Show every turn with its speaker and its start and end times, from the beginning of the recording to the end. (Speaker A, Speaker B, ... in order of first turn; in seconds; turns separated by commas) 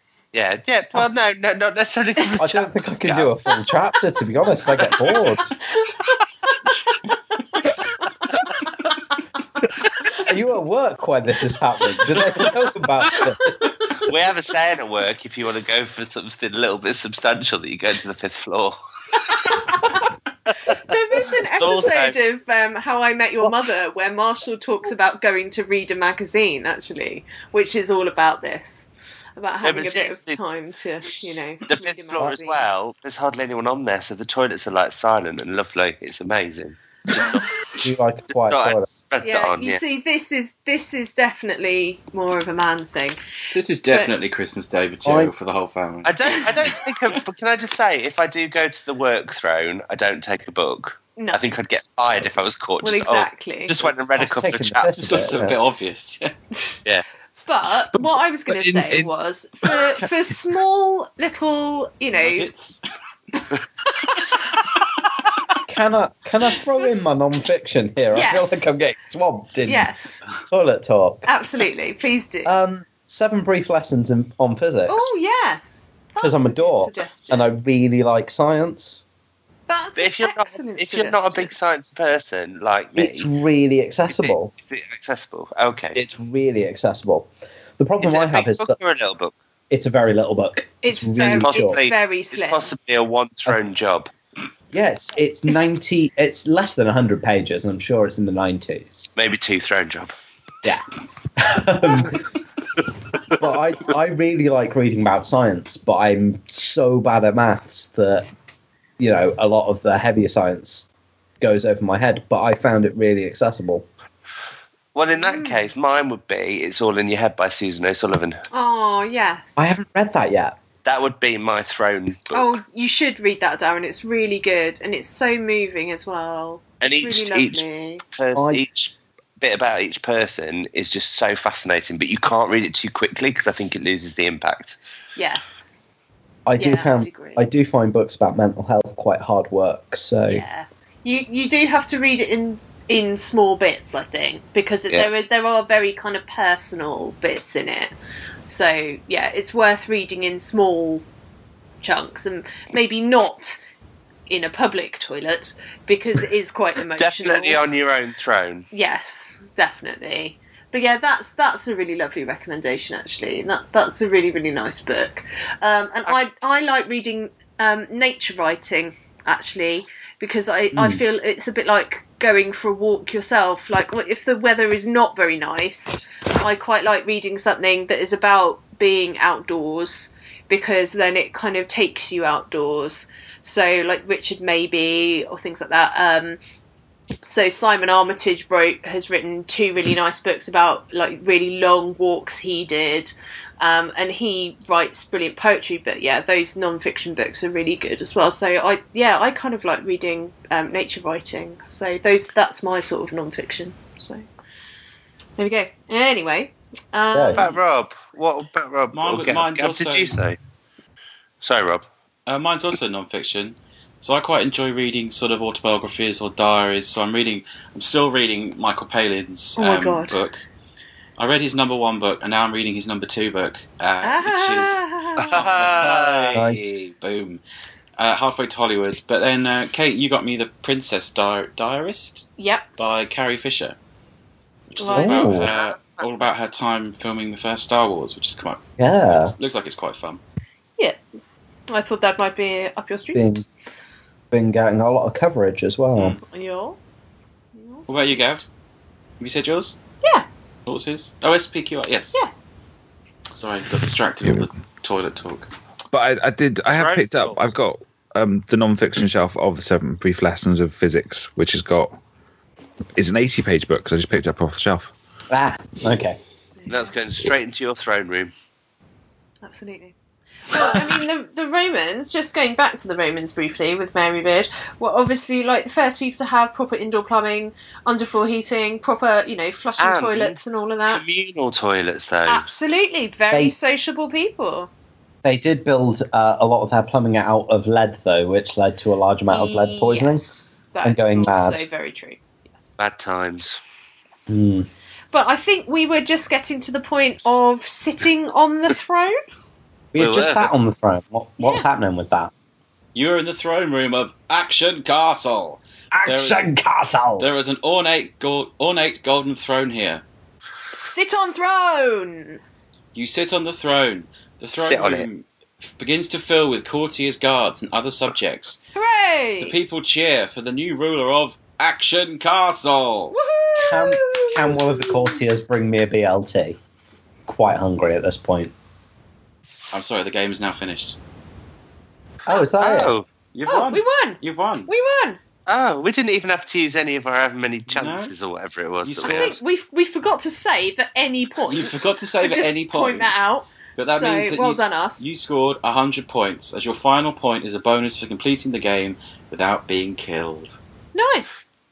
Speaker A: 0.3-3.3, Speaker B: 2.4-5.5, Speaker C: 4.8-7.0, Speaker B: 10.2-13.7, Speaker C: 13.4-14.0, Speaker A: 14.0-18.8, Speaker C: 19.3-20.0, Speaker C: 20.7-32.6, Speaker A: 21.5-22.1, Speaker A: 29.6-30.4, Speaker A: 31.6-37.6, Speaker B: 37.8-38.9, Speaker A: 38.5-39.8, Speaker C: 39.2-43.2, Speaker D: 43.5-47.1, Speaker B: 45.0-45.3, Speaker A: 46.0-55.2, Speaker C: 51.2-51.5, Speaker C: 52.8-53.9, Speaker B: 54.1-55.6, Speaker D: 55.0-56.3, Speaker C: 56.5-56.8, Speaker C: 57.5-62.5, Speaker E: 57.9-59.1, Speaker D: 62.1-62.8, Speaker B: 65.7-71.3, Speaker C: 66.7-67.1, Speaker C: 68.1-68.8, Speaker C: 69.7-70.2, Speaker C: 71.2-72.5, Speaker B: 72.4-75.1, Speaker C: 74.9-77.5, Speaker B: 76.2-79.0, Speaker C: 79.7-81.5, Speaker A: 80.0-83.3, Speaker B: 83.0-84.5, Speaker A: 84.1-86.0, Speaker B: 85.9-88.8, Speaker A: 88.0-89.3, Speaker B: 89.7-91.8, Speaker C: 90.8-92.7, Speaker A: 91.4-94.1, Speaker B: 94.7-99.1, Speaker A: 99.2-100.1, Speaker B: 101.4-102.3, Speaker B: 103.4-108.2, Speaker B: 109.0-110.9, Speaker B: 111.4-113.8, Speaker A: 114.9-118.4, Speaker C: 115.1-115.6, Speaker C: 118.5-119.7, Speaker B: 119.6-120.5, Speaker A: 120.8-122.6, Speaker C: 122.3-128.0, Speaker A: 126.8-134.8, Speaker B: 128.3-128.6, Speaker C: 135.2-135.7, Speaker B: 136.4-140.4, Speaker C: 136.6-137.4, Speaker C: 140.3-147.9, Speaker C: 148.4-151.0, Speaker C: 151.8-153.6, Speaker C: 154.3-157.7, Speaker A: 156.9-158.7, Speaker C: 158.7-186.4, Speaker B: 170.7-171.0, Speaker C: 187.2-204.2, Speaker C: 205.4-207.5, Speaker B: 207.1-207.4, Speaker A: 207.3-210.4, Speaker D: 208.9-210.2, Speaker A: 211.4-211.8, Speaker D: 212.3-220.4, Speaker C: 219.6-220.2, Speaker D: 221.2-226.4, Speaker C: 224.0-225.4, Speaker A: 225.2-226.9, Speaker B: 225.8-226.9, Speaker D: 227.0-227.4, Speaker D: 228.0-233.8, Speaker C: 232.4-232.6, Speaker D: 234.7-240.2, Speaker C: 234.8-235.4, Speaker B: 234.8-235.5, Speaker A: 235.4-236.0, Speaker B: 238.8-239.3, Speaker C: 240.8-243.4, Speaker B: 243.1-243.4, Speaker B: 244.3-246.2, Speaker C: 246.2-246.8, Speaker C: 247.5-248.2, Speaker D: 247.9-248.4, Speaker D: 249.2-249.8, Speaker D: 250.7-252.2, Speaker C: 252.1-252.4, Speaker D: 253.3-255.5, Speaker E: 255.9-262.0, Speaker A: 256.7-257.4, Speaker E: 262.9-264.9, Speaker B: 265.3-266.2, Speaker C: 266.6-266.9, Speaker A: 266.7-268.3, Speaker C: 269.4-269.9, Speaker C: 270.5-281.0, Speaker A: 279.8-282.4, Speaker C: 282.3-284.7, Speaker B: 283.3-283.6, Speaker B: 285.2-290.3, Speaker C: 289.3-292.8, Speaker B: 290.8-291.6, Speaker A: 292.8-293.6, Speaker B: 294.3-294.7, Speaker C: 295.1-299.2, Speaker B: 299.9-302.3, Speaker A: 299.9-300.5, Speaker C: 301.4-301.6, Speaker D: 302.9-306.5, Speaker B: 305.9-307.3, Speaker D: 307.2-310.0, Speaker C: 310.7-312.4, Speaker D: 312.9-318.6, Speaker A: 314.5-315.1, Speaker C: 318.7-319.6, Speaker D: 319.4-323.1, Speaker C: 323.1-325.2, Speaker B: 323.6-326.6, Speaker B: 327.3-328.5, Speaker D: 329.7-330.9, Speaker B: 332.2-332.9, Speaker A: 332.6-333.1, Speaker D: 333.3-334.7, Speaker C: 333.5-335.2, Speaker A: 335.5-339.4, Speaker D: 337.7-338.1, Speaker D: 338.8-339.4, Speaker C: 339.0-345.1, Speaker D: 341.5-343.1, Speaker D: 343.8-350.6, Speaker C: 350.9-351.5